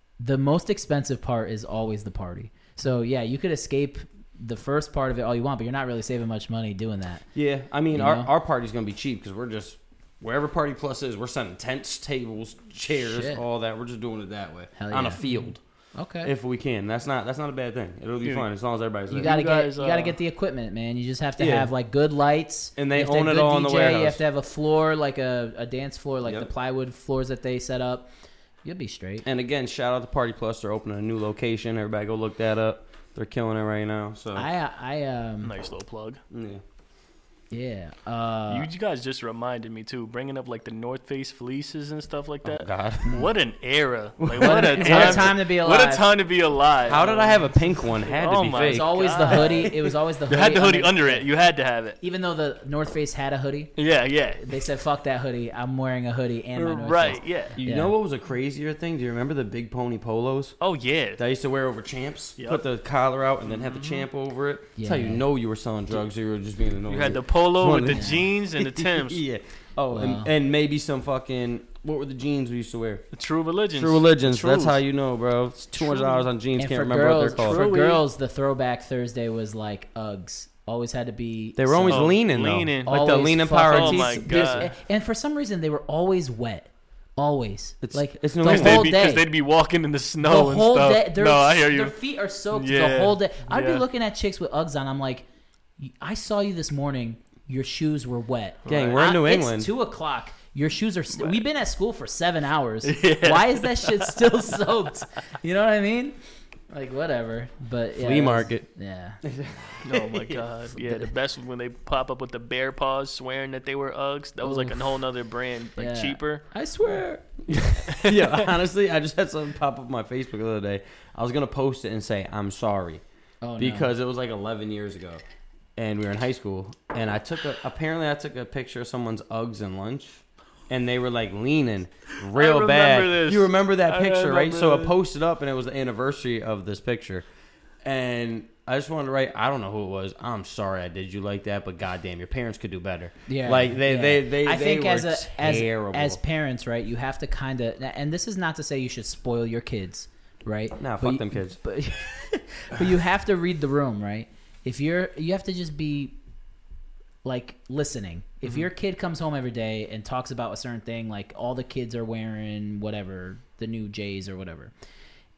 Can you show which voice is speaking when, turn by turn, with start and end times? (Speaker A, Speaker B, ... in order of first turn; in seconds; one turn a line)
Speaker A: 0.2-7.3
Speaker B: 7.3-15.6
Speaker A: 7.9-8.3
Speaker A: 13.0-13.4
Speaker A: 14.8-16.3
Speaker B: 16.2-19.3
Speaker C: 19.1-20.2
Speaker A: 19.1-28.1
Speaker B: 21.4-21.7
Speaker B: 22.8-24.2
Speaker B: 26.2-26.5
Speaker A: 28.6-29.3
Speaker B: 29.2-34.5
Speaker A: 34.4-35.5
Speaker C: 35.4-36.2
Speaker B: 36.3-36.6
Speaker A: 37.5-38.7
Speaker C: 38.5-52.0
Speaker B: 42.4-43.1
Speaker B: 44.2-45.4
Speaker A: 44.4-46.1
Speaker B: 46.9-49.6
Speaker A: 48.6-51.3
Speaker A: 52.0-53.7
Speaker C: 53.8-54.6
Speaker A: 54.4-57.9
Speaker C: 56.6-57.6
Speaker B: 57.6-60.6
Speaker C: 60.6-61.2
Speaker B: 61.2-73.0
Speaker C: 62.4-62.6
Speaker C: 63.5-64.1
Speaker A: 64.8-65.2
Speaker C: 66.9-69.2
Speaker A: 67.9-68.2
Speaker A: 69.9-70.3
Speaker C: 73.1-74.8
Speaker B: 73.7-77.7
Speaker C: 75.8-76.3
Speaker A: 76.6-82.2
Speaker C: 77.3-78.0
Speaker B: 81.6-84.7
Speaker C: 81.9-82.9
Speaker A: 82.8-89.3
Speaker C: 83.7-84.7
Speaker B: 87.8-88.9
Speaker C: 88.4-92.0
Speaker A: 90.2-95.2
Speaker C: 92.5-93.8
Speaker A: 95.8-106.2
Speaker C: 98.7-99.0
Speaker B: 98.7-99.7
Speaker C: 102.8-104.2
Speaker A: 106.7-109.2
Speaker B: 108.0-108.7
Speaker B: 109.2-110.4
Speaker C: 109.8-116.5
Speaker A: 110.8-111.1
Speaker A: 114.4-114.8
Speaker A: 115.8-117.3
Speaker B: 117.5-123.0
Speaker C: 117.9-118.4
Speaker A: 123.4-123.9
Speaker B: 123.6-125.2
Speaker B: 125.8-137.2
Speaker C: 132.3-134.9
Speaker B: 137.8-146.2
Speaker A: 143.3-156.2
Speaker B: 150.8-151.6
Speaker A: 157.2-164.7